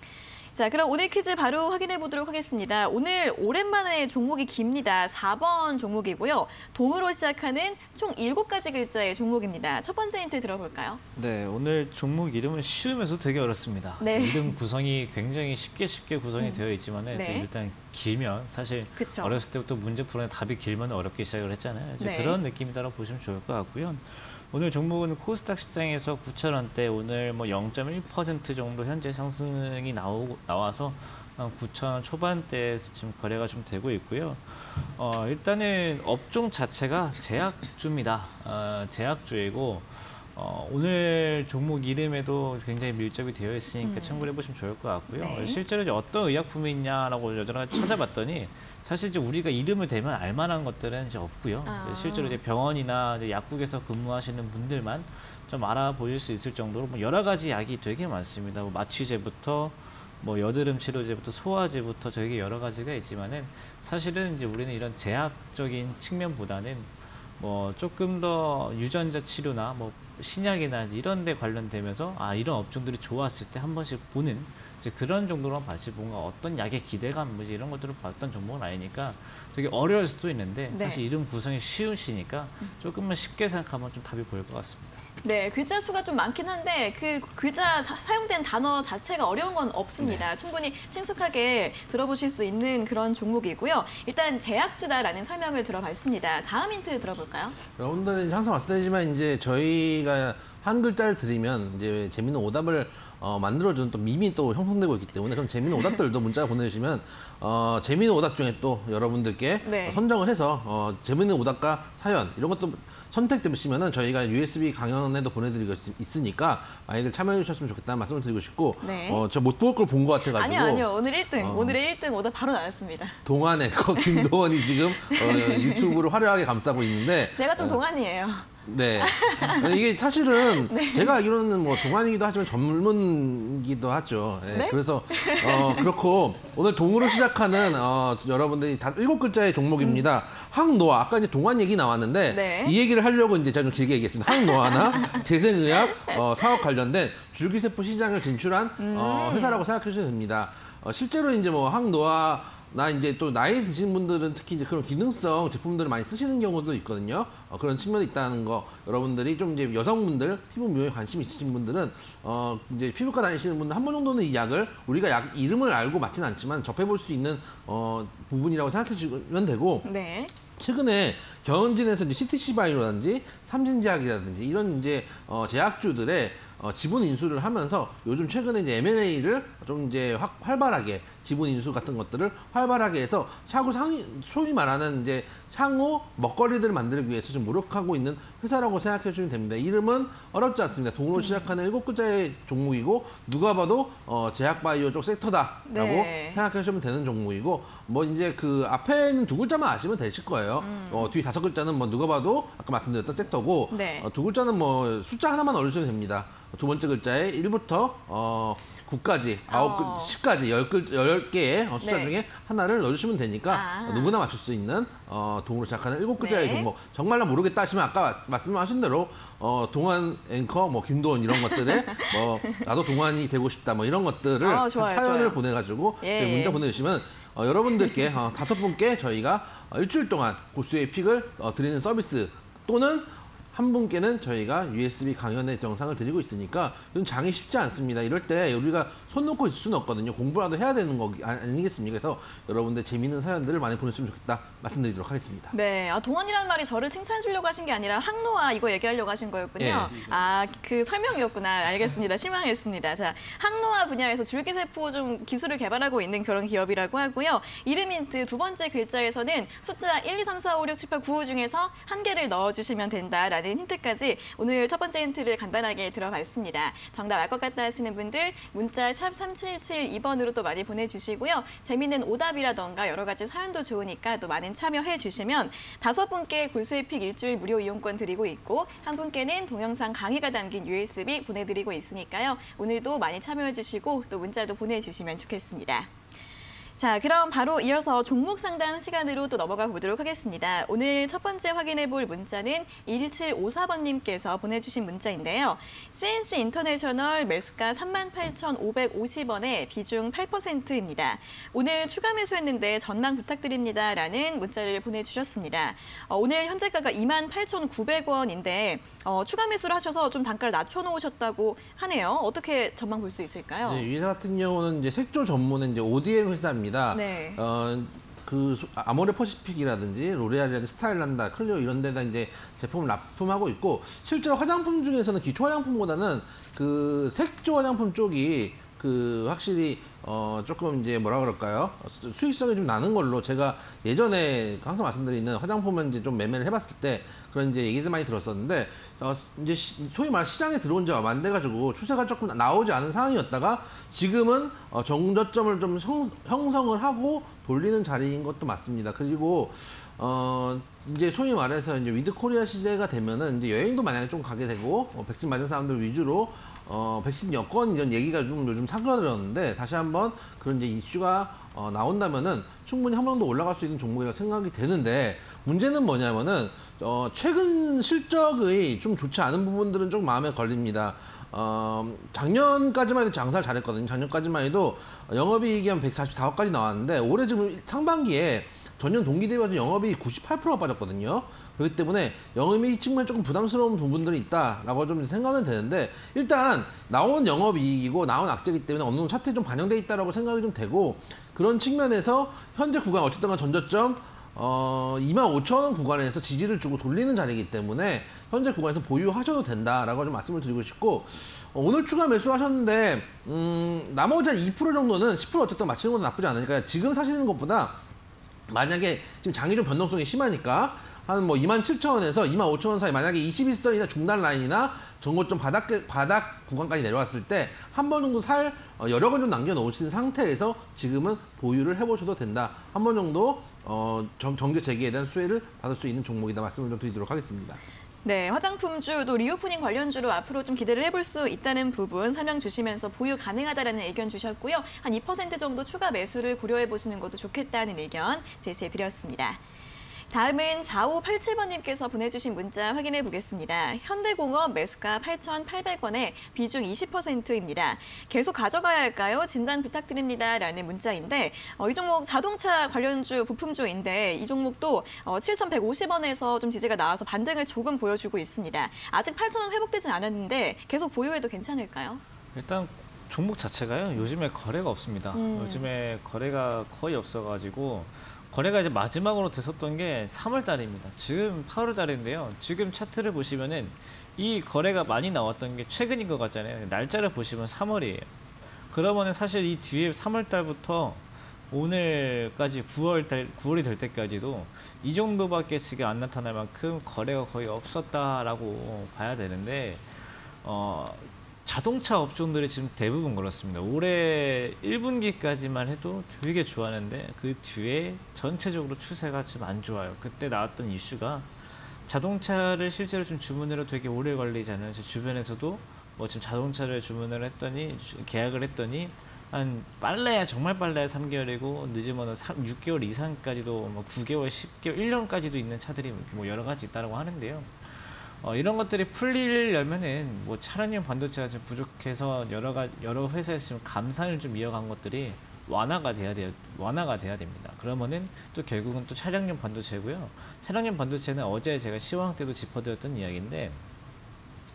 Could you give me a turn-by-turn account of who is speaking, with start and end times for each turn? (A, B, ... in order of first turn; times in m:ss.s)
0:00.5-0:11.0 A
0:11.2-1:25.0 B
0:14.0-0:14.5 A
0:17.1-0:17.5 A
0:19.0-0:19.4 A
0:22.0-0:22.4 A
0:43.8-0:44.3 A
0:45.2-0:45.6 A
0:51.6-0:52.4 A
1:20.7-1:21.0 A
1:25.2-1:37.6 A
1:30.0-1:30.2 B
1:37.8-2:01.8 C
1:49.6-1:50.0 A
1:58.8-1:59.2 A
2:00.3-2:03.2 A
2:03.2-2:07.8 C
2:04.0-2:04.3 A
2:05.0-2:06.0 A
2:07.3-2:09.7 A
2:08.6-2:49.9 C
2:10.5-2:11.1 A
2:14.5-2:15.8 A
2:19.8-2:20.0 A
2:22.3-2:22.7 A
2:24.4-2:25.1 A
2:28.8-2:29.6 A
2:49.8-2:50.3 A
2:50.6-4:05.5 C
3:11.2-3:11.5 A
3:15.7-3:16.4 A
3:20.6-3:21.1 A
3:23.7-3:24.1 A
3:29.5-3:30.1 A
3:31.8-3:32.1 A
3:33.5-3:34.2 A
3:36.2-3:36.7 A
3:41.5-3:42.6 A
3:44.4-3:45.4 A
3:46.0-3:46.6 A
4:05.5-4:45.9 A
4:09.6-4:10.0 C
4:46.8-5:13.8 A
5:13.6-6:47.8 C
5:16.9-5:17.4 A
6:48.5-7:07.6 C
7:08.0-7:19.4 A
7:20.1-7:42.0 A
7:42.3-7:58.1 B
7:45.1-7:45.6 A
7:58.7-8:09.8 B
8:10.4-8:21.3 B
8:21.9-8:53.6 B